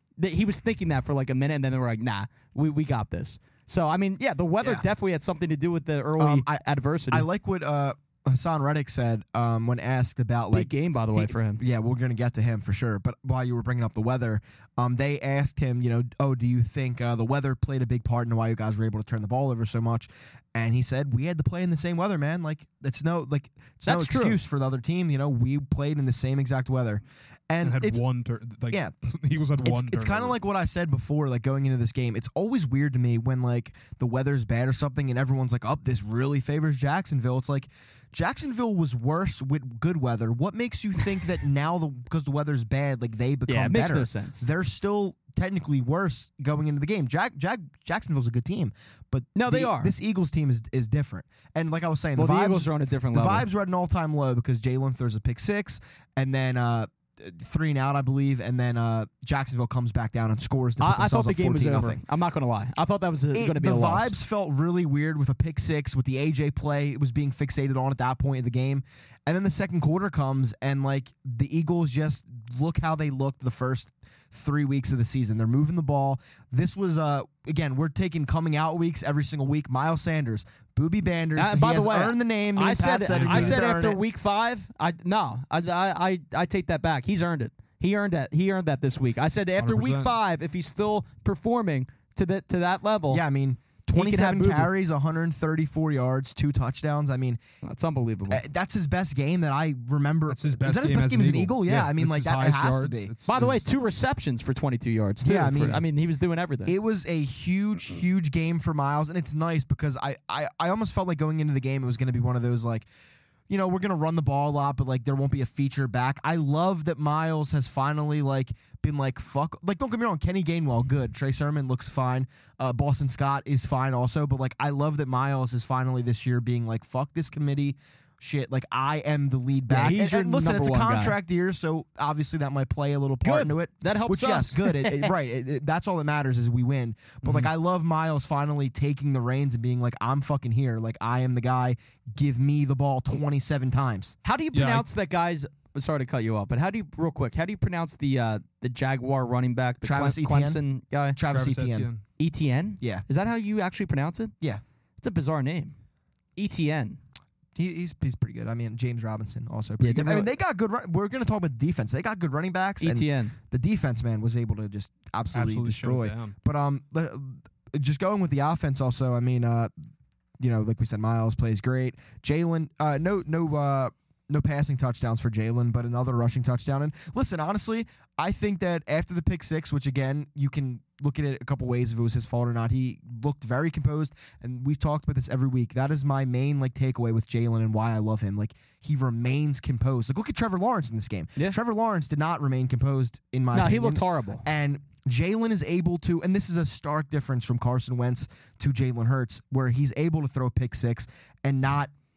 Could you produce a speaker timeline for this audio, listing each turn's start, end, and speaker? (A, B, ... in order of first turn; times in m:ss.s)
0:00.2-0:07.3 A
0:04.6-0:04.9 B
0:06.2-0:28.0 B
0:10.5-0:11.6 A
0:23.8-0:24.4 A
0:27.6-0:30.4 C
0:29.6-1:02.0 B
0:43.5-0:44.4 A
0:49.3-0:49.9 A
0:52.2-0:53.5 A
1:00.8-1:04.1 A
1:03.3-1:24.0 B
1:21.4-1:33.2 A
1:23.1-1:23.7 C
1:29.6-1:30.1 C
1:33.1-1:37.4 B
1:33.9-1:34.7 A
1:37.6-1:38.4 A
1:38.3-1:43.1 B
1:40.3-1:43.7 C
1:43.2-1:46.7 A
1:45.2-1:45.8 B
1:46.6-1:52.9 B
1:53.5-2:24.2 B
2:09.7-2:11.2 A
2:13.2-2:15.1 A
2:24.2-2:31.2 A
2:24.5-2:24.9 C
2:29.8-2:30.6 B
2:31.1-2:31.9 B
2:31.3-2:32.0 C
2:32.2-2:34.3 A
2:35.0-2:35.8 A
2:36.4-2:37.0 A
2:37.6-2:49.7 B
2:39.8-2:40.3 A
2:42.8-2:43.3 A
2:45.3-2:46.3 C
2:50.4-3:21.9 B
3:13.5-3:14.4 A